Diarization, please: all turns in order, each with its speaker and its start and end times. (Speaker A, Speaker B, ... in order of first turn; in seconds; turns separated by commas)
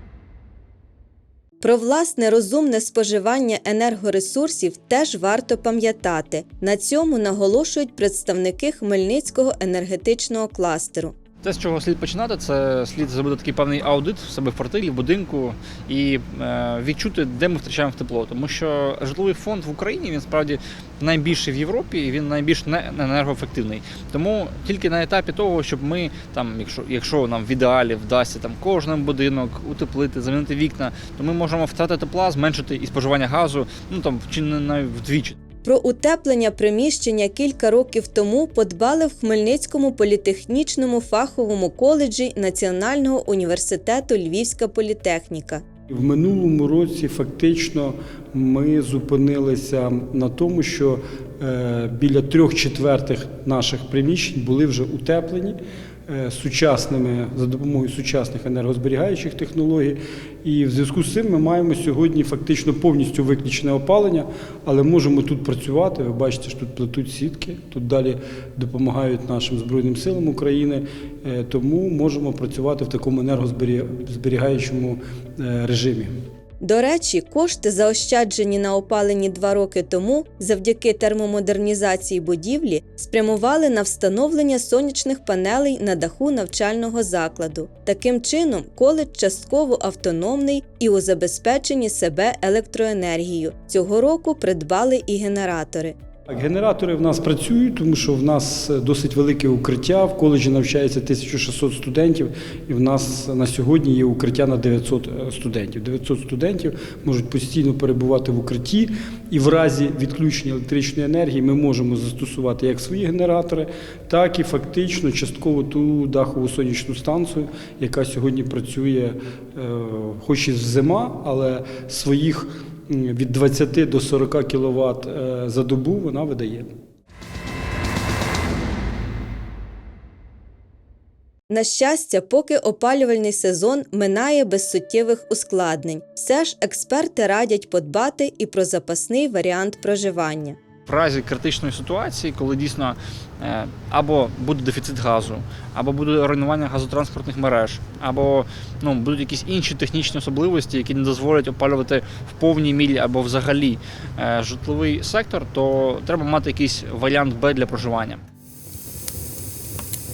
Speaker A: 1.6-11.2, Speaker B: 11.4-35.4, Speaker A: 35.6-45.6, Speaker C: 45.9-55.6, Speaker C: 56.1-76.2, Speaker A: 76.6-96.0, Speaker C: 96.3-126.7, Speaker A: 131.5-140.6, Speaker B: 140.9-158.2